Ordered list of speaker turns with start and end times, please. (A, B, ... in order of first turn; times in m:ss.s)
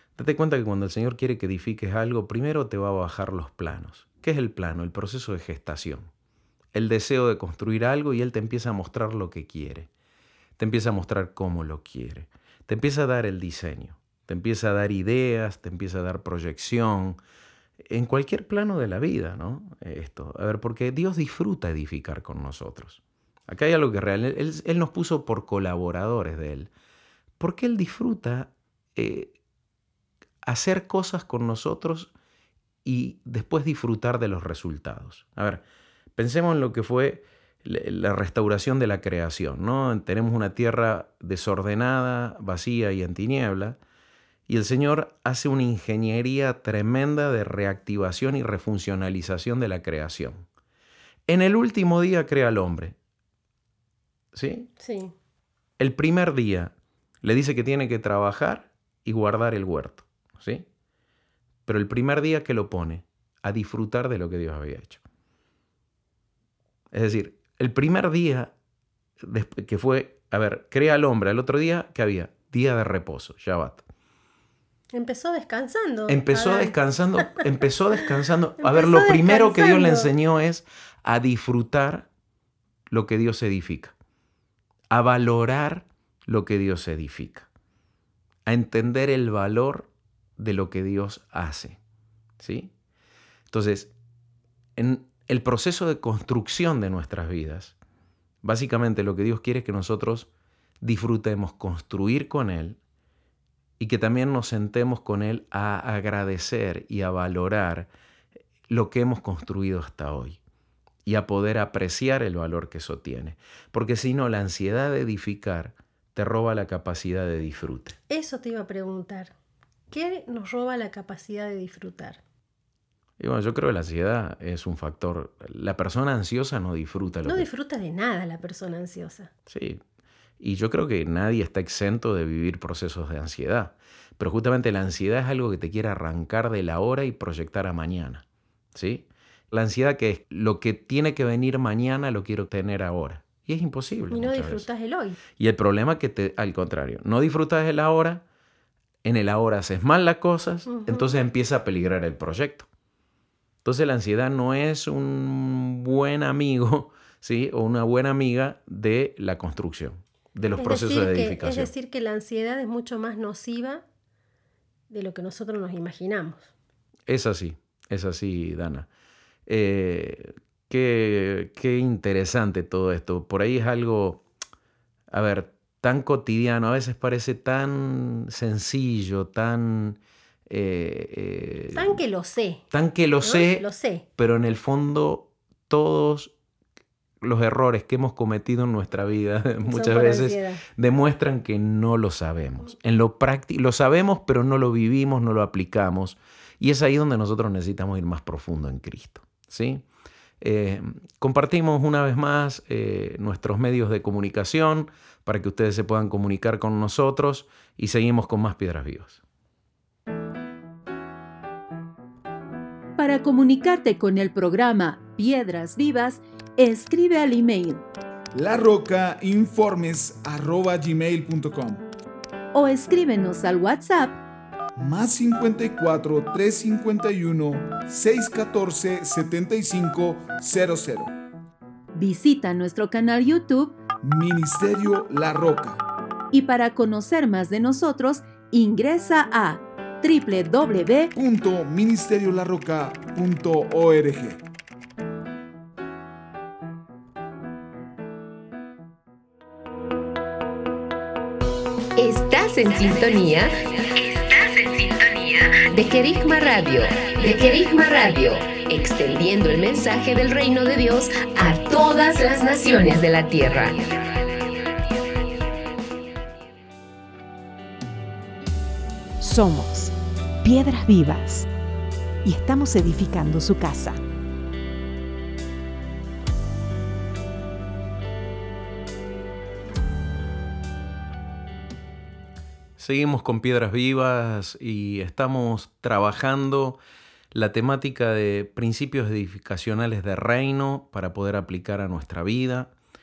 0:00.2-0:06.1 A
0:06.7-0:09.9 A
0:10.6-0:17.2 A
0:17.8-0:26.7 A
0:27.4-0:29.4 A
0:30.4-0:32.1 A
0:32.8-0:35.6 A
0:36.2-0:43.8 A
0:44.5-0:50.4 A
0:51.3-0:53.0 A
0:54.3-0:54.7 A
0:54.8-0:55.1 B
0:55.8-1:00.6 A
1:01.6-1:05.0 A
1:06.9-1:08.5 A
1:09.2-1:13.8 A
1:14.9-1:16.7 B
1:16.1-1:22.1 A
1:18.6-1:20.1 B
1:22.9-1:23.9 A
1:24.9-1:27.5 A
1:28.4-1:31.8 A
1:32.4-1:32.7 A
1:33.5-1:33.9 A
1:34.8-1:37.8 A
1:38.4-1:40.3 A
1:40.8-1:42.8 A
1:43.8-1:47.9 A
1:48.7-1:50.4 A
1:51.0-1:58.0 A
1:58.1-1:59.3 B
1:59.9-2:02.2 B
2:03.2-2:07.5 A
2:07.2-2:09.3 B
2:09.5-2:09.8 A
2:10.4-2:24.7 A
2:24.1-2:25.2 B
2:25.4-2:28.2 A
2:29.0-2:32.7 A
2:30.7-2:31.1 B
2:33.6-2:41.7 A
2:40.6-2:43.8 B
2:44.9-2:46.5 B
2:47.1-2:48.9 A
2:49.5-2:54.2 A
2:55.1-3:02.0 A
3:01.7-3:02.6 B
3:02.7-3:03.6 A
3:03.2-3:04.0 B
3:04.2-3:06.3 A
3:07.2-3:19.8 A
3:09.6-3:10.6 B
3:20.4-3:29.2 A
3:33.0-3:37.8 C
3:38.3-3:41.9 D
3:42.5-3:44.2 C
3:44.8-3:51.1 D
3:51.9-3:53.7 C
3:54.0-3:55.8 D
3:56.3-4:01.1 C
4:01.1-4:04.4 D
4:12.0-4:23.9 E
4:29.2-4:31.5 F
4:32.2-4:34.0 F
4:42.8-4:46.8 A
4:47.3-4:52.7 A